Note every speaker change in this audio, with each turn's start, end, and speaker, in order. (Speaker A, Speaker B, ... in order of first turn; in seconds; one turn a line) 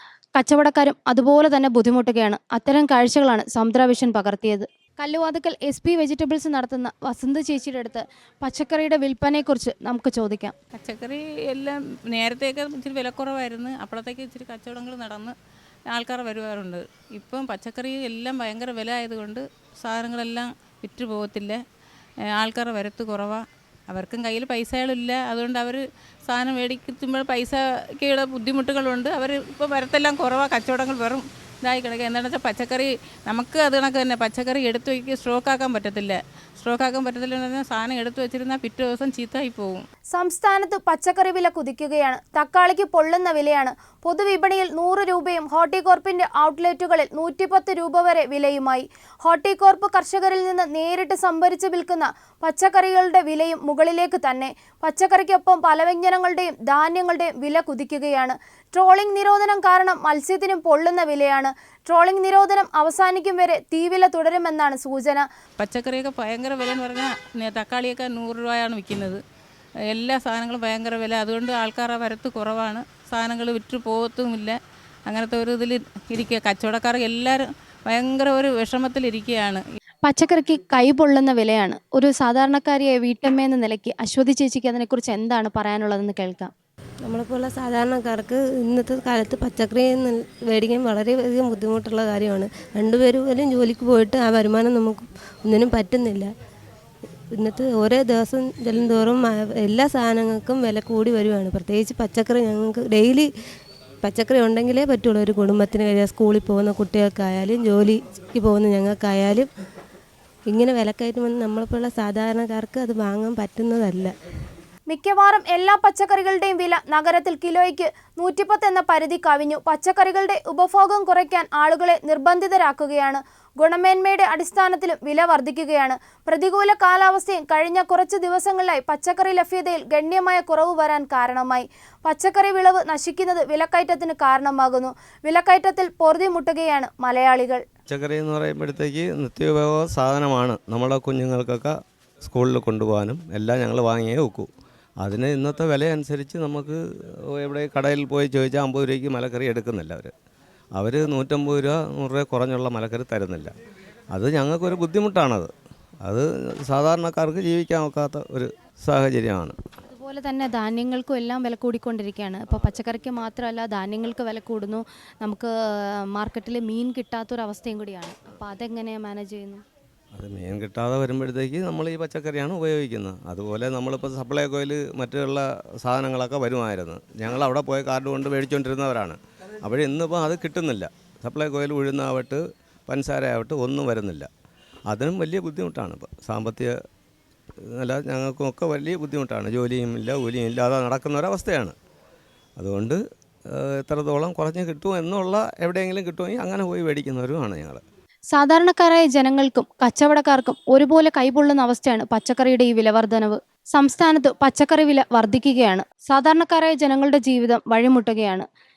Speaker A: 0.3-10.5
Speaker B: 10.7-15.3
Speaker B: 15.9-21.6
Speaker B: 22.4-39.8
Speaker A: 40.1-65.2
Speaker B: 65.6-69.2
Speaker B: 69.9-74.5
Speaker B: 75.1-79.6
Speaker A: 80.0-86.5
Speaker C: 87.0-96.3
Speaker C: 97.3-103.3
Speaker C: 104.0-109.5
Speaker C: 110.5-114.1
Speaker A: 114.9-137.6
Speaker D: 137.9-150.1
Speaker D: 150.8-153.5
Speaker D: 154.1-155.5
Speaker D: 156.0-159.6
Speaker A: 159.9-165.5
Speaker A: 166.1-169.6
Speaker D: 170.1-184.3
Speaker D: 184.9-186.7
Speaker D: 187.7-191.7
Speaker D: 192.6-193.0
Speaker D: 193.5-197.8
Speaker A: 198.3-208.4